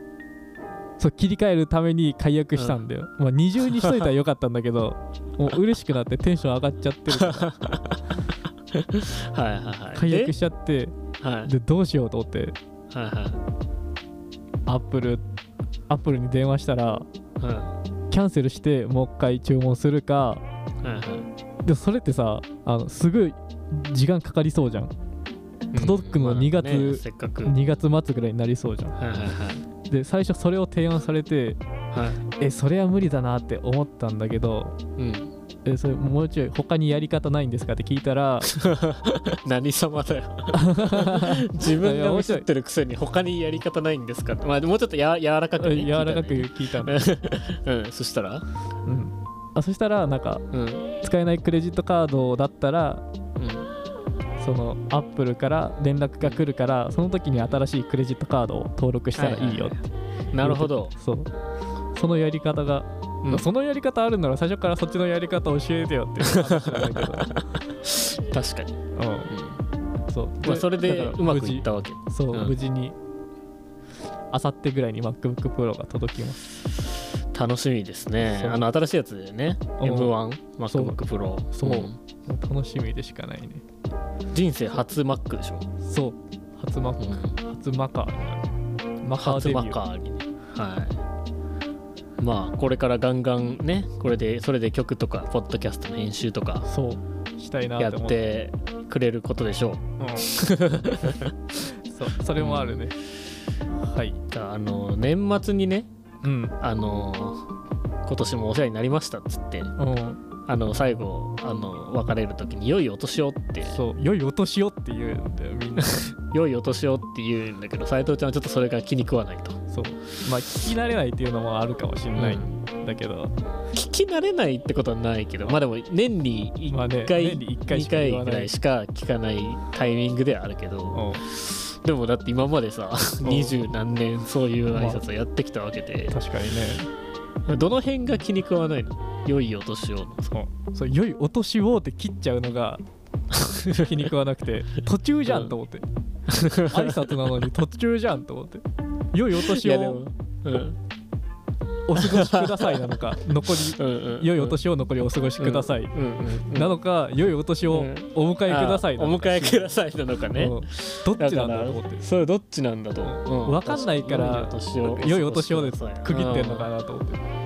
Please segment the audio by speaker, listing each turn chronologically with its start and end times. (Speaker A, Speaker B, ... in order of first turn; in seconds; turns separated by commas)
Speaker A: 1.0-7.6, Speaker B: 2.6-2.8, Speaker B: 7.2-8.0, Speaker B: 8.7-10.3, Speaker A: 9.9-12.6, Speaker B: 11.2-11.5, Speaker B: 12.9-13.4, Speaker A: 14.7-15.2, Speaker A: 15.9-17.1, Speaker B: 17.4-17.7, Speaker A: 18.1-20.4, Speaker B: 20.8-21.3, Speaker A: 21.6-24.9, Speaker B: 25.7-27.6, Speaker A: 25.8-29.0, Speaker B: 29.0-29.7, Speaker A: 29.8-31.6, Speaker B: 31.9-32.2, Speaker A: 32.3-34.8, Speaker B: 35.0-35.3, Speaker A: 35.6-38.5, Speaker B: 38.5-48.4, Speaker A: 40.5-42.5, Speaker A: 45.5-47.0, Speaker A: 48.9-53.0, Speaker B: 50.5-50.9, Speaker B: 53.4-53.7, Speaker A: 54.4-59.8, Speaker B: 59.2-60.9, Speaker A: 60.4-61.3, Speaker A: 61.9-67.3, Speaker B: 63.2-63.5, Speaker B: 66.3-68.8, Speaker A: 68.9-69.3, Speaker B: 69.3-69.6, Speaker A: 70.1-73.0, Speaker B: 70.4-72.5, Speaker A: 74.3-76.5, Speaker B: 77.3-82.0, Speaker A: 78.2-78.7, Speaker A: 79.8-80.1, Speaker A: 80.7-83.6, Speaker B: 84.3-85.7, Speaker A: 85.8-88.5, Speaker B: 87.0-87.3, Speaker A: 89.0-89.8, Speaker B: 89.2-91.0, Speaker B: 92.2-96.7, Speaker A: 96.7-98.3, Speaker B: 97.8-101.3, Speaker A: 100.0-100.4, Speaker A: 101.5-102.9, Speaker B: 102.4-102.9, Speaker A: 103.7-104.2, Speaker B: 104.3-105.9, Speaker A: 106.2-106.6, Speaker B: 106.6-107.5, Speaker B: 108.1-109.7, Speaker A: 109.8-110.2, Speaker B: 110.5-113.8, Speaker A: 113.7-116.0, Speaker B: 115.8-119.6, Speaker A: 119.7-123.3, Speaker B: 122.1-122.6, Speaker B: 123.7-136.2, Speaker A: 126.7-128.5, Speaker A: 130.9-131.2, Speaker A: 133.2-133.6, Speaker A: 134.8-135.0, Speaker A: 136.1-136.9, Speaker B: 137.5-140.3, Speaker A: 140.3-142.8, Speaker B: 143.3-143.9, Speaker A: 143.8-145.8, Speaker B: 145.2-145.5, Speaker B: 146.3-147.1, Speaker A: 146.7-150.0, Speaker B: 149.3-150.8, Speaker A: 151.9-155.9, Speaker B: 152.2-152.9, Speaker B: 153.7-154.6, Speaker B: 155.4-156.7, Speaker A: 156.5-159.8, Speaker B: 157.8-166.7, Speaker A: 160.4-162.1, Speaker A: 163.0-167.2